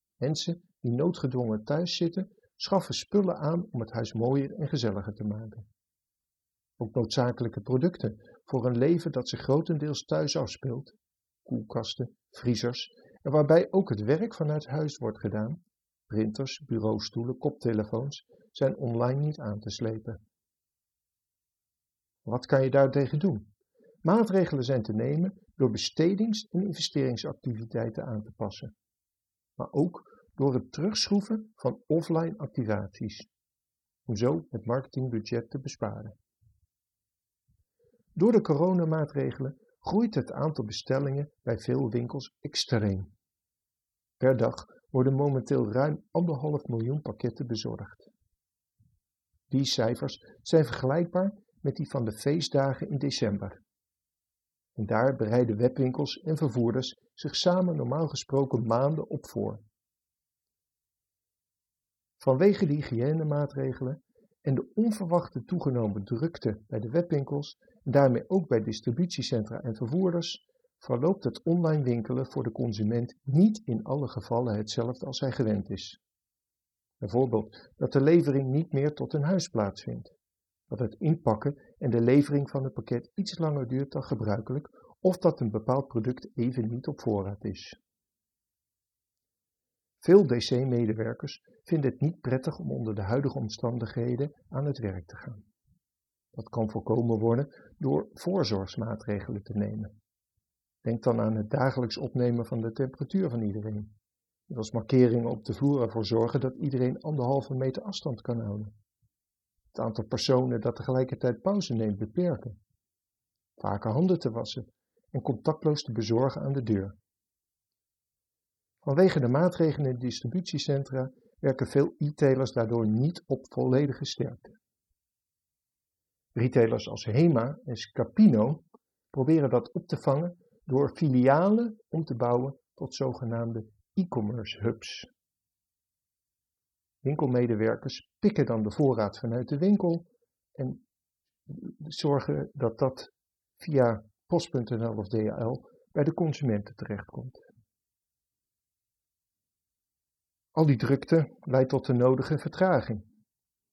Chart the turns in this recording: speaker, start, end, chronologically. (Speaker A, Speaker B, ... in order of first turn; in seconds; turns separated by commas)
Speaker A: 0.2-5.7, Speaker A: 6.8-20.2, Speaker A: 22.2-23.5, Speaker A: 24.0-28.7, Speaker A: 29.6-33.3, Speaker A: 34.1-36.1, Speaker A: 38.2-43.1, Speaker A: 44.2-48.1, Speaker A: 49.5-53.6, Speaker A: 54.8-59.6, Speaker A: 62.2-76.0, Speaker A: 77.0-80.1, Speaker A: 80.7-87.8, Speaker A: 90.0-95.4, Speaker A: 96.3-100.0, Speaker A: 100.8-103.9, Speaker A: 104.5-108.7, Speaker A: 109.7-112.6, Speaker A: 113.6-117.0, Speaker A: 118.8-124.6, Speaker A: 126.3-135.1, Speaker A: 137.0-140.8, Speaker A: 141.5-147.4, Speaker A: 150.6-153.1